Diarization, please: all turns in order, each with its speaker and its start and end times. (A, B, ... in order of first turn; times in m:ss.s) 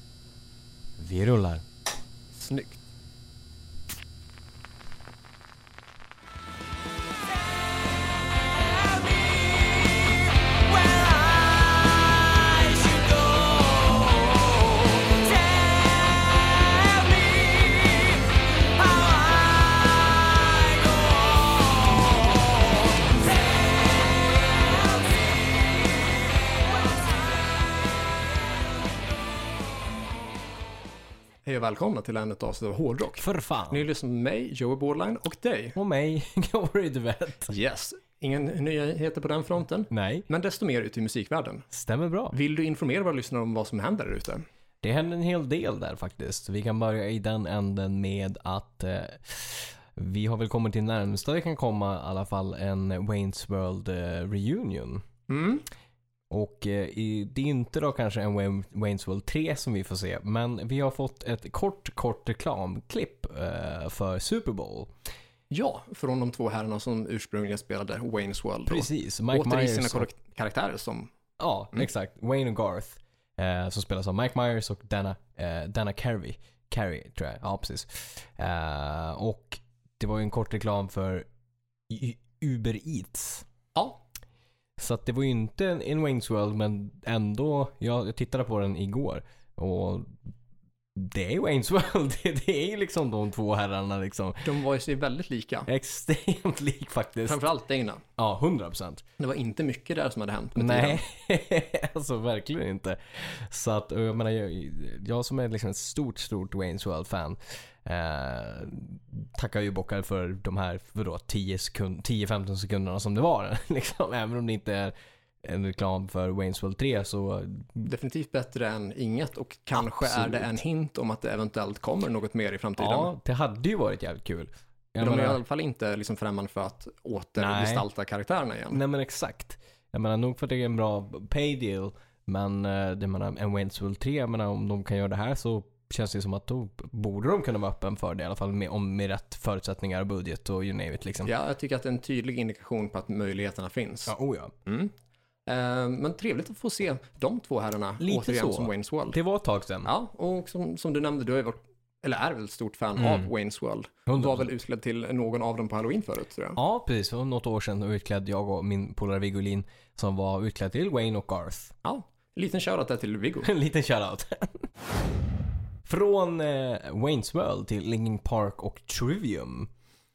0:01.0-0:01.6 A
0:02.3-0:02.8 B
0:12.4-0:18.3 A
0:18.8-0:22.0 A
0:31.4-0:35.8 B
0:33.2-0:33.8 A
0:35.8-0:37.5 A
0:37.5-0:41.7 B
0:39.9-0:40.2 A
0:41.7-0:42.4 A
0:42.3-0:44.4 B
0:44.8-0:55.0 A
0:55.3-0:55.6 B
0:56.3-1:04.9 A
1:05.5-1:11.1 B
1:08.7-1:10.1 A
1:11.4-1:21.2 A
1:21.9-1:23.4 A
1:23.7-1:24.0 B
1:24.8-1:30.2 A
1:30.9-1:34.5 A
1:34.4-1:35.7 B
1:35.7-1:37.4 A
1:37.2-1:38.0 B
1:38.2-1:39.0 A
1:39.2-1:41.0 B
1:40.6-1:57.8 A
1:57.8-2:03.1 B
1:59.8-2:00.5 A
2:02.8-2:05.4 A
2:05.0-2:08.8 B
2:07.4-2:07.8 A
2:08.7-2:21.3 A
2:21.2-2:24.1 B
2:24.1-2:24.5 A
2:24.6-2:24.9 B
2:25.5-2:29.2 B
2:28.0-2:29.9 A
2:29.8-2:36.6 B
2:33.0-2:33.3 A
2:34.1-2:34.4 A
2:36.6-2:41.7 A
2:41.8-2:43.5 B
2:43.4-2:44.7 A
2:45.8-2:49.7 A